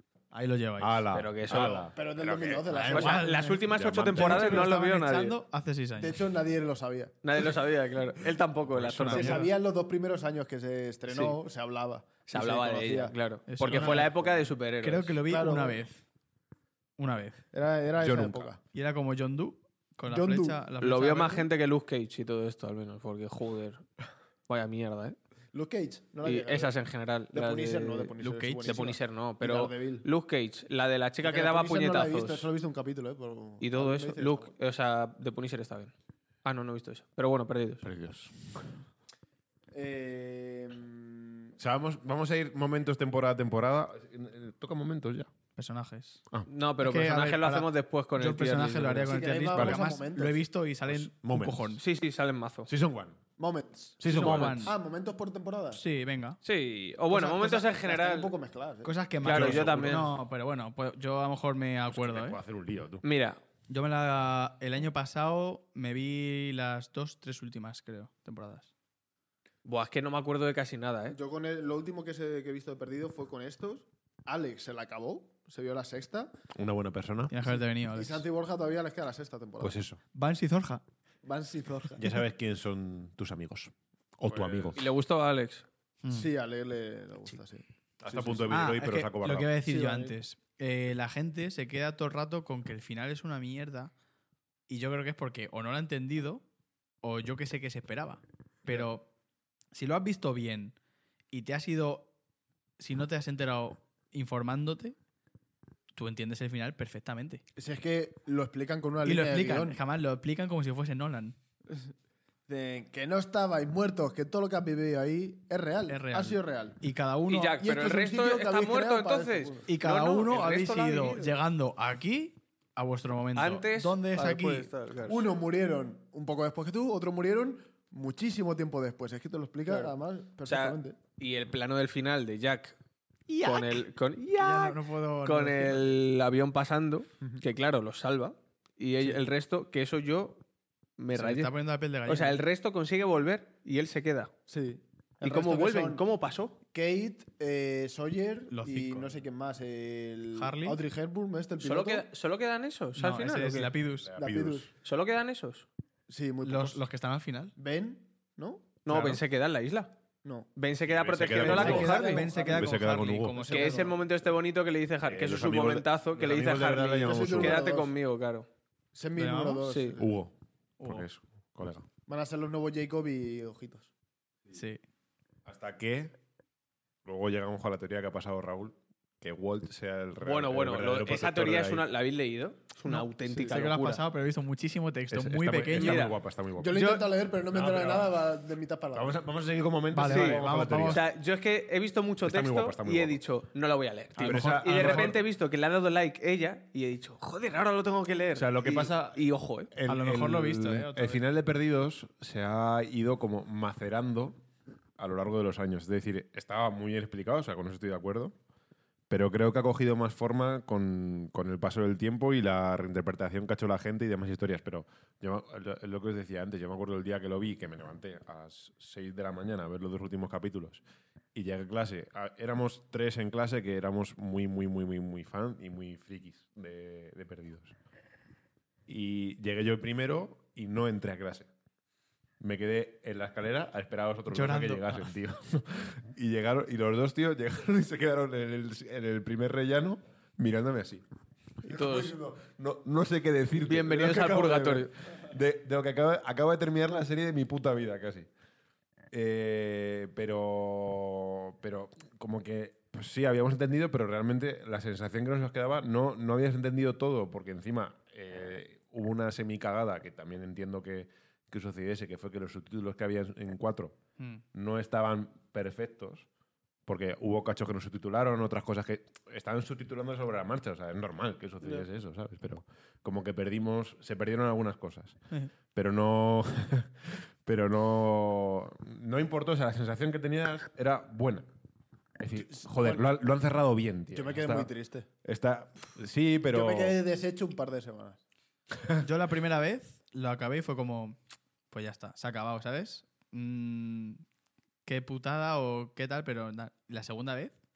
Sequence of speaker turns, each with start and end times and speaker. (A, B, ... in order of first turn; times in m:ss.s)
0:00.3-0:01.0 A
0:00.8-0:02.8 B
0:01.1-0:01.9 C
0:01.6-0:03.3 D
0:02.7-0:06.2 A
0:02.8-0:05.4 C
0:03.7-0:04.7 B
0:06.0-0:07.2 D
0:07.2-0:09.4 C
0:08.7-0:09.1 B
0:08.8-0:09.5 A
0:09.1-0:14.1 D
0:11.1-0:11.4 C
0:12.3-0:15.2 C
0:13.5-0:14.1 A
0:14.8-0:16.0 A
0:15.2-0:15.8 D
0:17.0-0:17.4 A
0:17.5-0:18.6 D
0:18.0-0:18.5 B
0:18.7-0:21.5 A
0:20.0-0:20.6 D
0:20.8-0:23.8 C
0:24.5-0:25.2 C
0:25.5-0:26.7 D
0:26.2-0:28.1 C
0:27.3-0:30.0 D
0:28.2-0:28.9 A
0:28.6-0:32.5 C
0:31.2-0:34.5 D
0:33.6-0:35.9 C
0:36.4-0:37.8 C
0:37.8-0:38.7 B
0:39.7-0:41.5 D
0:41.6-0:45.3 B
0:45.6-0:46.2 A
0:46.5-0:49.2 C
0:46.8-0:51.8 A
0:49.0-0:50.4 D
0:49.5-0:49.8 B
0:50.8-0:51.8 B
0:51.8-0:52.7 C
0:52.7-0:53.2 B
0:53.4-0:55.8 D
0:54.0-0:54.7 B
0:54.1-0:54.7 A
0:54.2-0:54.6 C
0:55.7-0:56.4 A
0:56.4-0:58.3 C
0:57.1-0:58.9 D
0:58.8-1:02.4 A
0:59.2-1:00.1 C
0:59.2-1:00.0 B
1:01.9-1:03.0 B
1:03.0-1:03.4 C
1:03.7-1:08.7 A
1:09.6-1:11.2 C
1:11.1-1:16.3 D
1:16.5-1:17.3 B
1:17.3-1:18.2 A
1:17.9-1:19.8 D
1:19.6-1:20.0 B
1:20.1-1:20.8 A
1:21.2-1:22.0 D
1:22.0-1:24.9 B
1:24.3-1:24.7 D
1:24.7-1:25.6 C
1:26.0-1:26.3 A
1:26.1-1:28.5 D
1:28.0-1:29.5 B
1:28.5-1:33.9 A
1:29.6-1:30.2 D
1:34.7-1:36.4 A
1:37.0-1:39.1 A
1:39.7-1:40.7 A
1:41.3-1:42.1 A
1:42.8-1:45.0 A
1:45.9-1:47.4 A
1:47.6-1:49.8 D
1:49.0-1:51.4 A
1:52.5-1:56.8 D
1:55.9-1:57.6 A
1:57.3-2:01.4 C
1:57.6-1:59.7 D
1:59.7-2:04.7 A
2:03.3-2:05.2 C
2:05.1-2:11.0 D
2:09.7-2:09.9 C
2:10.4-2:12.8 C
2:13.3-2:13.8 A
2:13.4-2:20.4 C
2:14.4-2:16.0 A
2:21.0-2:21.5 C
2:21.1-2:22.4 A
2:22.0-2:24.3 C
2:24.5-2:26.0 D
2:25.2-2:26.6 C
2:26.7-2:32.0 D
2:28.5-2:29.1 A
2:30.3-2:30.8 A
2:31.6-2:33.7 C
2:33.0-2:34.1 A
2:33.8-2:34.7 B
2:34.2-2:34.7 D
2:34.8-2:35.7 C
2:36.1-2:36.8 D
2:36.4-2:37.5 A
2:37.6-2:38.6 D
2:38.8-2:39.9 C
2:38.9-2:39.2 A
2:40.6-2:42.3 C
2:40.8-2:43.4 B
2:41.3-2:42.7 D
2:41.4-2:43.9 A
2:43.4-2:48.5 C
2:43.4-2:43.9 D
2:45.0-2:47.7 B
2:47.0-2:47.9 D
2:48.9-2:50.2 D
2:49.2-2:49.7 A
2:49.7-2:50.0 C
2:50.0-2:51.8 B
2:50.8-2:51.1 A
2:52.1-2:53.9 D
2:54.5-2:54.8 A
2:55.4-2:56.2 B
2:57.0-3:01.9 B
3:00.2-3:04.0 C
3:02.9-3:06.1 A
3:05.1-3:06.9 B
3:05.7-3:06.2 C
3:06.6-3:09.2 D
3:06.7-3:07.0 C
3:07.5-3:08.1 B
3:08.9-3:11.0 B
3:09.9-3:11.0 A
3:10.0-3:19.7 C
3:12.2-3:13.2 B
3:14.2-3:15.2 A
3:14.2-3:15.2 B
3:18.3-3:24.4 B
3:19.9-3:21.2 A
3:25.0-3:28.3 B
3:29.1-3:40.8 B
3:41.3-3:47.7 B
3:48.9-3:51.5 B
3:52.4-4:01.0 B
3:54.3-3:55.1 A
4:01.6-4:08.3 B
4:01.6-4:02.1 C
4:03.6-4:04.9 C
4:09.1-4:24.0 B
4:24.5-4:26.3 B
4:26.9-4:35.2 B
4:35.7-4:41.5 B
4:42.2-4:44.7 B
4:42.4-4:43.0 D
4:44.1-4:45.1 D
4:45.2-4:47.0 B
4:46.5-4:48.2 D
4:49.0-4:51.2 A
4:51.7-4:54.2 A
4:54.8-4:57.5 A